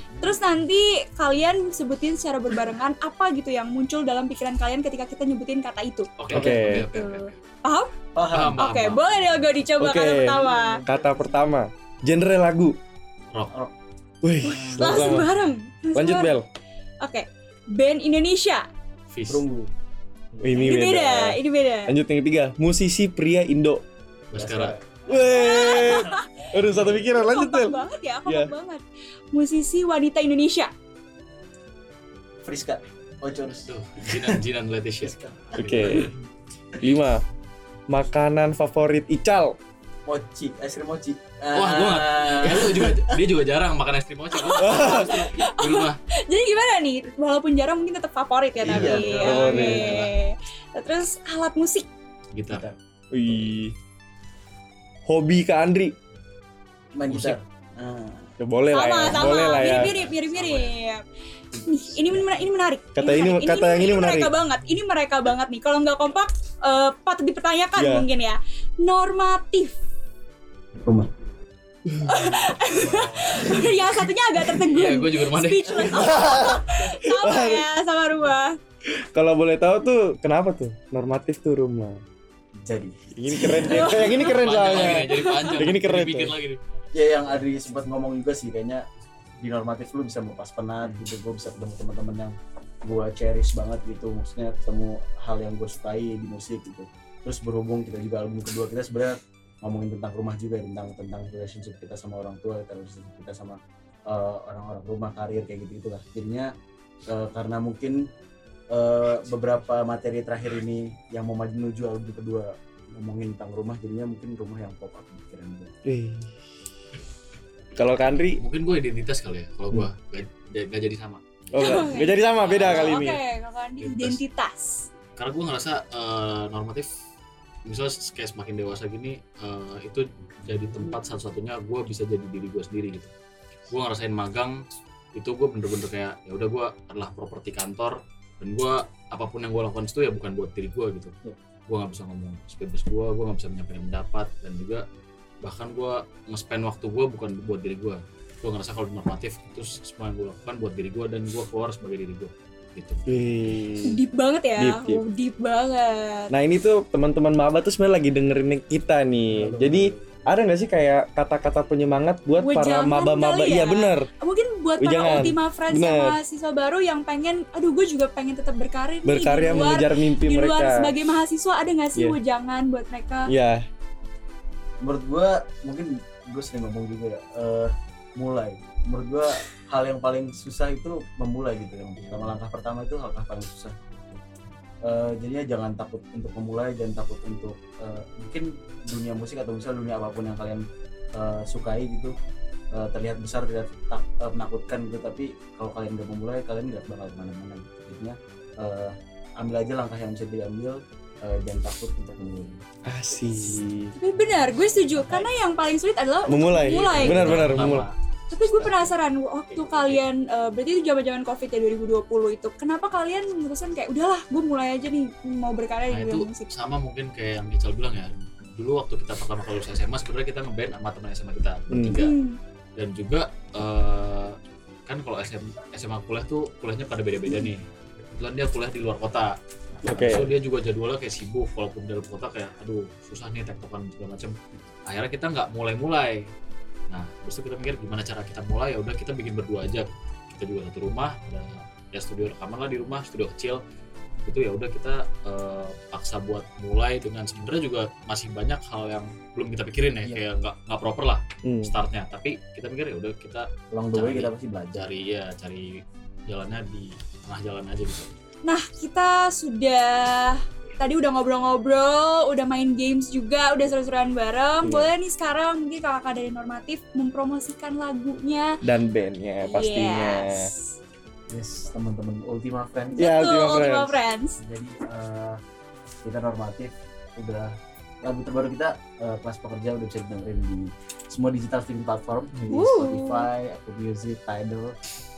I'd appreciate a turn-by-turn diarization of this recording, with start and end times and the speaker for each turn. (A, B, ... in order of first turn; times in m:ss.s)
0:00.2-0:07.9 A
0:06.2-0:07.3 B
0:06.3-0:06.9 C
0:08.2-0:08.7 D
0:08.3-0:09.4 B
0:08.6-0:10.8 A
0:09.8-0:12.8 C
0:10.3-0:11.5 D
0:13.5-0:13.7 D
0:14.2-0:15.3 C
0:14.8-0:16.4 A
0:14.8-0:15.1 D
0:16.0-0:16.5 C
0:17.0-0:18.7 A
0:19.1-0:19.4 B
0:19.3-0:19.7 D
0:20.3-0:20.6 D
0:20.4-0:23.8 C
0:20.6-0:22.0 A
0:24.3-0:24.8 B
0:24.3-0:25.0 D
0:25.1-0:28.5 C
0:25.2-0:26.5 A
0:27.1-0:30.7 A
0:32.4-0:34.4 D
0:33.7-0:36.1 B
0:35.0-0:36.0 D
0:35.6-0:36.1 C
0:36.8-0:37.2 C
0:37.9-0:39.6 C
0:40.1-0:43.2 D
0:41.6-0:46.0 B
0:44.4-0:51.9 A
0:44.6-0:45.1 C
0:48.6-0:50.1 D
0:48.7-0:49.9 C
0:52.3-0:52.7 B
0:52.5-0:52.8 D
0:53.1-0:53.7 C
0:53.3-0:53.5 D
0:55.1-0:55.9 C
0:56.9-0:58.3 D
0:57.0-0:57.4 B
0:58.4-0:59.9 C
0:58.7-1:01.0 A
0:59.0-1:00.8 B
1:01.6-1:02.4 D
1:01.7-1:09.8 A
1:03.0-1:04.3 C
1:07.8-1:08.1 C
1:10.8-1:11.1 D
1:11.9-1:12.2 C
1:12.1-1:18.6 A
1:12.6-1:13.6 B
1:14.6-1:16.3 B
1:15.8-1:16.2 D
1:16.1-1:17.7 C
1:19.1-1:22.0 C
1:22.6-1:24.2 D
1:23.2-1:26.3 C
1:23.6-1:25.6 A
1:24.2-1:26.6 B
1:26.9-1:28.8 D
1:29.4-1:46.5 D
1:47.1-1:48.0 D
1:48.7-1:55.7 D
1:55.9-1:56.3 C
1:57.8-1:58.4 C
1:58.2-2:03.2 B
2:01.5-2:03.2 C
2:01.6-2:04.9 A
2:03.8-2:04.2 B
2:05.2-2:06.9 B
2:07.6-2:13.1 B
2:13.7-2:14.6 B
2:15.2-2:21.2 B
2:21.7-2:24.8 B
2:25.4-2:33.1 B
2:33.1-2:34.0 C
2:33.9-2:36.3 A
2:34.6-2:35.0 C
2:36.3-2:44.1 C
2:39.3-2:40.0 D
2:42.4-2:53.3 A
2:44.8-2:46.2 C
2:49.0-2:50.9 C
2:53.3-2:53.6 C
2:54.8-3:04.2 D
3:02.0-3:02.3 B
3:04.8-3:10.6 D
3:11.2-3:12.1 D
3:12.7-3:22.6 D
3:22.9-3:23.9 C
3:24.0-3:27.5 A
3:25.0-3:25.3 B
3:26.3-3:27.9 C
3:26.7-3:29.0 B
3:28.3-3:36.5 A
3:29.5-3:30.0 B
3:35.9-3:42.2 B
3:41.7-3:42.0 C
3:42.0-3:42.4 A
3:42.8-3:44.4 B
3:44.9-3:47.6 B
3:48.2-3:49.4 B
3:49.8-3:50.3 D
3:49.8-3:50.3 C
3:49.9-3:54.4 B
3:54.9-3:56.3 B
3:56.9-4:03.6 B
4:04.3-4:18.1 B
4:11.4-4:11.7 C
4:13.7-4:14.9 D
4:18.5-4:28.5 A
4:24.6-4:24.9 C
4:28.6-4:30.5 C
4:29.4-4:30.7 A
4:31.3-4:33.0 D
4:33.0-4:34.0 C
4:33.0-4:34.4 A
4:34.4-4:35.4 D
4:36.0-4:44.7 D
4:42.4-4:42.6 C
4:42.5-4:43.3 A